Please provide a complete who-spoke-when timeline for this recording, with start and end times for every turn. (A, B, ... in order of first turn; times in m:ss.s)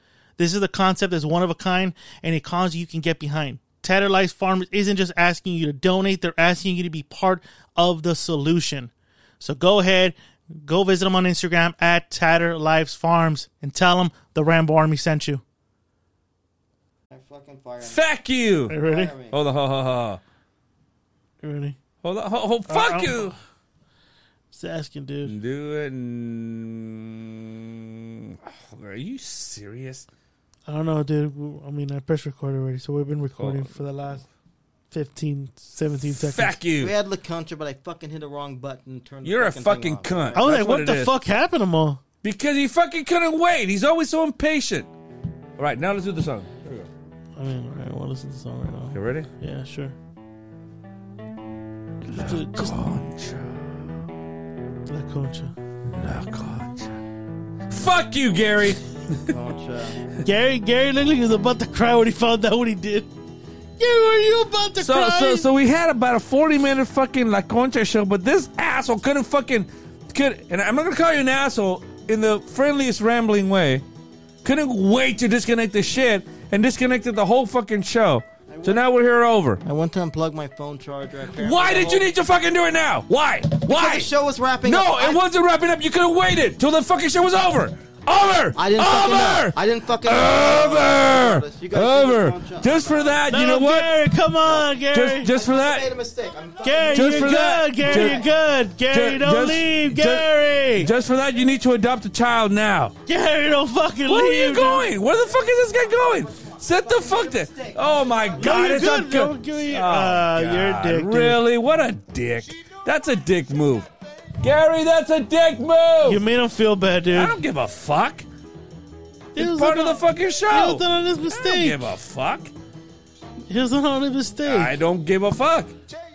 0:00.4-0:15.4 A
0:17.1-0:18.0 B
0:17.8-0:20.2 C
0:18.7-0:19.1 A
0:18.8-0:19.4 B
0:21.4-0:21.8 A
0:22.0-0:23.4 C
0:22.7-0:23.4 A
0:24.5-0:25.3 A
0:25.2-0:30.1 C
0:30.7-0:34.2 A
0:33.4-0:33.8 C
0:34.9-0:36.6 A
0:36.1-0:37.0 C
0:36.8-0:40.4 B
0:39.2-0:41.2 C
0:40.3-0:42.0 A
0:42.2-0:44.9 C
0:45.6-0:46.9 C
0:47.4-0:49.9 A
0:48.9-0:49.3 C
0:52.1-0:53.7 C
0:52.1-0:52.8 A
0:54.9-0:55.5 A
0:55.8-0:56.9 C
0:57.7-0:59.2 C
0:59.3-1:00.1 B
1:00.2-1:03.1 A
1:03.8-1:05.4 A
1:04.8-1:13.8 C
1:14.4-1:19.6 C
1:18.5-1:18.8 B
1:19.6-1:22.1 B
1:21.4-1:24.1 C
1:23.6-1:25.2 B
1:24.6-1:33.9 C
1:28.5-1:33.2 B
1:33.3-1:35.3 A
1:34.9-1:35.9 C
1:35.2-1:38.3 B
1:36.6-1:40.9 A
1:36.9-1:38.2 C
1:38.9-1:42.9 C
1:43.0-1:44.9 A
1:44.0-1:53.9 C
1:46.8-1:47.8 B
1:48.4-1:51.4 A
1:54.4-1:56.2 C
1:56.0-1:57.4 A
1:57.1-1:58.2 C
1:59.3-2:01.9 A
1:59.4-2:02.5 C
2:03.5-2:04.8 A
2:04.4-2:05.7 C